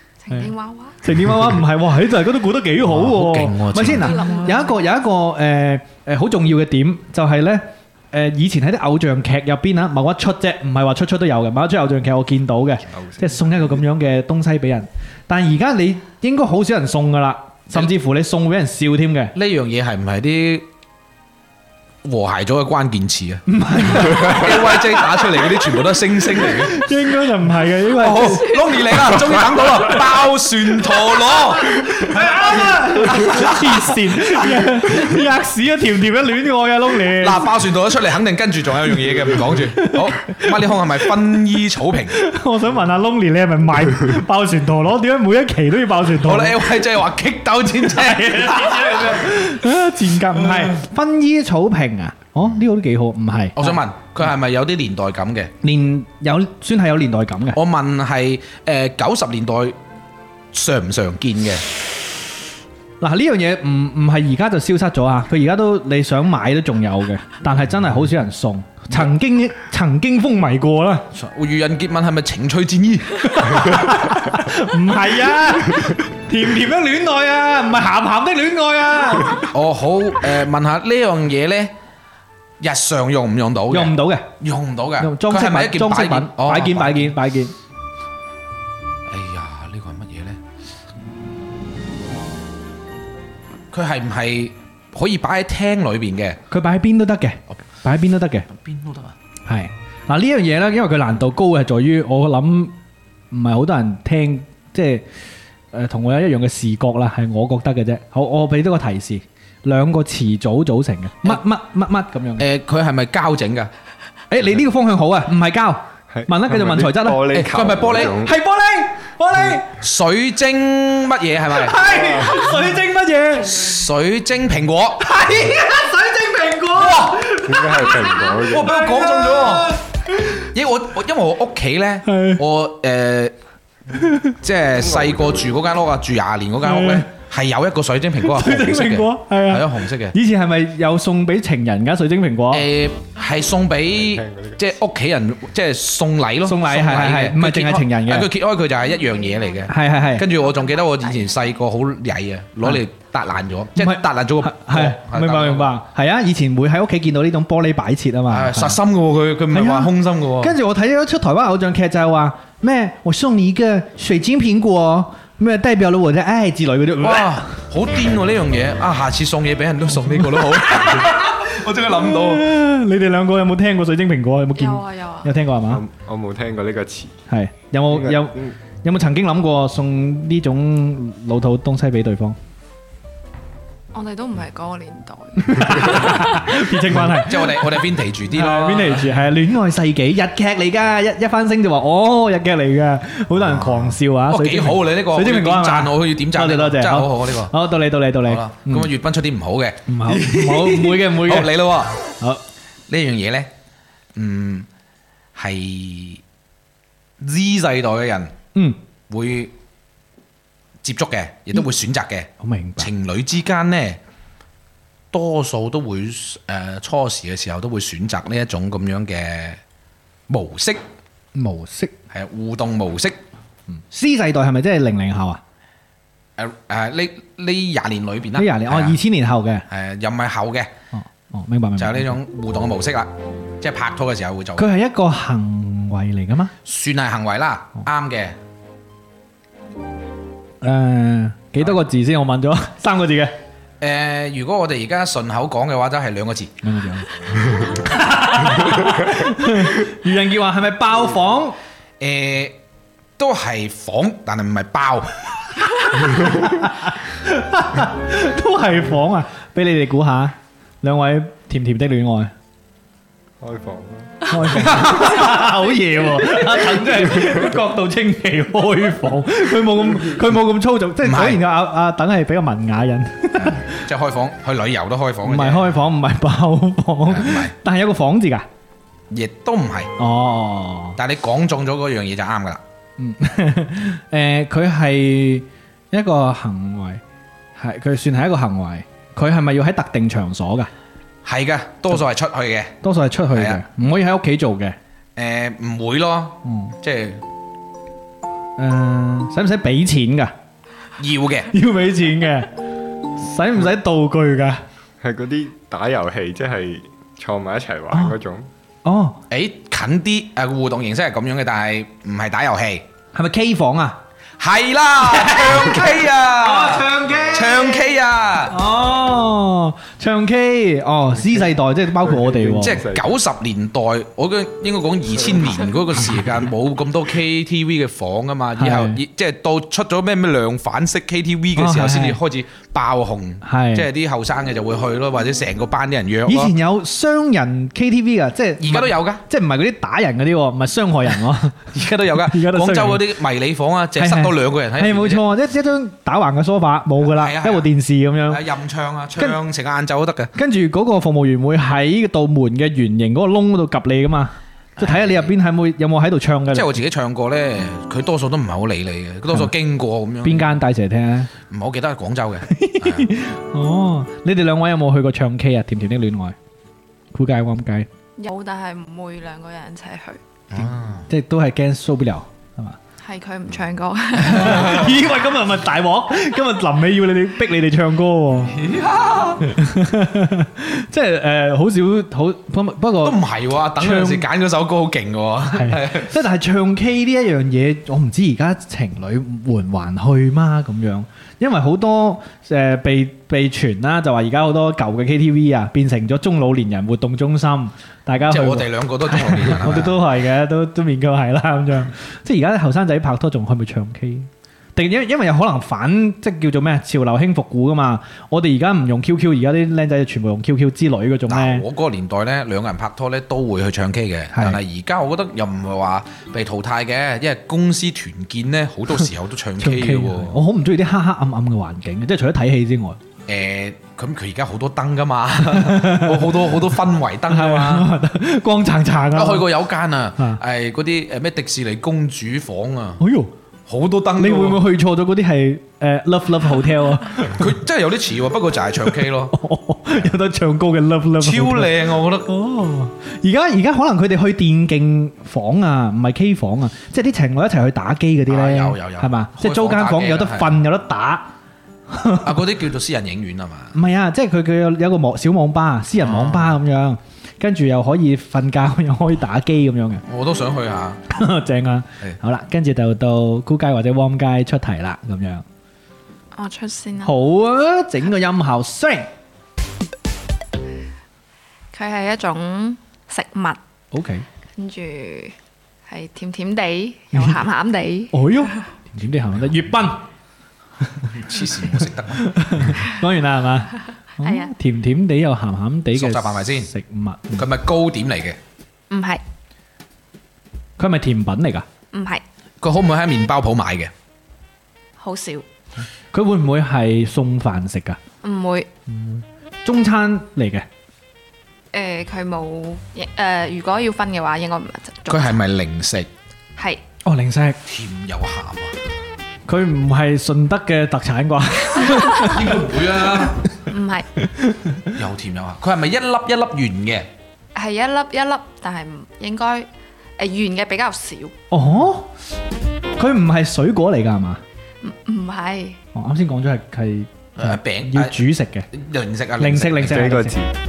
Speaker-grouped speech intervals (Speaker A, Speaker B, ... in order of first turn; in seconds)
Speaker A: 0.2-1.0, 4.0-4.8, 150.3-151.3, 174.6-175.3, 183.9-186.6, 368.2-370.2, 373.0-374.9, 466.3-467.1, 471.7-473.6, 474.6-475.4, 475.9-478.5, 484.2-484.5, 488.9-489.2, 491.9-492.2, 495.0-495.4, 498.2-498.7, 501.7-505.4, 506.6-506.8, 513.7-514.1, 517.5-521.4, 524.8-525.8
Speaker B: 1.0-19.3, 23.5-25.3, 26.4-28.6, 29.1-29.9, 31.7-37.5, 39.6-41.1, 42.1-46.6, 47.8-53.8, 55.6-57.6, 63.0-71.1, 73.3-79.5, 83.7-84.3, 85.0-87.5, 96.5-98.5, 99.5-102.8, 103.3-105.0, 105.7-112.5, 114.3-117.3, 118.1-119.7, 121.5-123.8, 125.0-130.4, 132.1-132.4, 134.0-134.3, 136.6-137.1, 138.2-142.7, 146.4-148.3, 149.7-150.3, 153.8-158.8, 159.5-167.5, 170.2-171.2, 172.0-175.8, 177.3-182.4, 185.4-187.7, 188.3-198.9, 199.9-201.5, 212.4-212.9, 221.3-221.9, 223.9-225.4, 228.4-229.7, 230.9-232.2, 234.6-236.5, 240.6-243.3, 246.6-251.6, 256.2-262.3, 264.3-273.8, 275.2-278.5, 280.0-281.0, 283.0-287.0, 287.6-290.7, 292.8-294.8, 296.4-296.8, 298.6-300.3, 301.5-302.5, 303.1-304.6, 308.9-309.2, 313.1-314.0, 315.0-317.9, 318.5-322.8, 328.6-329.0, 331.6-332.2, 333.4-333.9, 336.3-341.7, 342.3-343.0, 344.0-348.4, 350.4-356.8, 360.2-361.3, 362.5-366.4, 367.1-367.9, 371.1-372.8, 374.2-378.6, 379.4-383.2, 383.8-384.2, 385.5-411.6, 414.3-414.6, 419.6-423.0, 425.5-426.5, 427.3-429.5, 433.0-433.3, 434.2-437.5, 439.3-451.3, 451.9-452.4, 453.7-460.0, 461.1-465.4, 467.0-469.1, 473.9-474.2, 478.1-480.1, 482.1-487.5, 490.8-491.7, 496.1-498.0, 498.9-500.7, 507.1-507.6, 509.5-512.6, 514.2-514.9, 521.5-522.1, 523.0-524.4, 525.9-528.7, 529.4-530.4
Speaker C: 2.8-4.3, 19.4-20.7, 22.0-26.9, 28.0-34.6, 37.2-42.2, 46.2-49.4, 53.6-55.5, 57.5-59.8, 60.5-61.6, 71.1-74.0, 79.3-81.7, 82.6-87.2, 89.1-90.4, 93.7-96.4, 98.5-99.2, 112.4-113.7, 117.3-118.2, 119.8-121.8, 123.5-125.0, 126.8-127.2, 128.5-129.7, 130.5-133.3, 134.4-140.2, 142.5-155.8, 158.3-160.6, 167.0-172.5, 187.0-189.2, 193.4-197.5, 198.3-201.9, 202.9-203.5, 204.2-204.7, 205.4-206.2, 207.2-208.3, 209.1-209.5, 210.8-214.0, 215.1-219.6, 220.3-220.8, 222.1-223.2, 226.4-229.0, 229.7-230.7, 231.8-234.7, 236.7-238.4, 243.8-246.5, 252.0-252.6, 253.2-255.2, 264.6-265.3, 271.0-271.4, 273.4-275.8, 277.1-277.5, 279.1-279.9, 281.0-282.6, 291.2-292.8, 293.3-293.6, 295.2-297.2, 301.0-301.5, 309.3-312.9, 314.4-318.5, 322.6-336.5, 338.6-339.2, 341.7-345.2, 347.0-347.7, 348.3-350.3, 354.8-355.3, 356.5-360.5, 361.5-363.1, 370.5-371.1, 374.4-374.7, 378.5-379.5, 383.0-386.1, 398.3-400.0, 411.3-420.4, 423.3-427.9, 429.1-433.0, 433.7-434.6, 437.2-439.4, 441.2-442.3, 448.3-450.6, 452.2-453.8, 456.0-456.6, 460.1-461.0, 481.1-482.7, 485.9-486.7, 487.4-488.4, 492.6-493.9, 505.1-506.1, 507.7-508.8, 512.2-513.4, 514.9-517.1, 527.4-530.0
Speaker D: 12.9-13.7, 116.1-118.3, 121.8-122.5, 127.4-128.8, 134.8-135.6, 144.0-144.6, 175.7-177.2, 177.9-178.6, 263.4-264.3, 305.0-308.5, 321.2-323.1, 529.8-530.5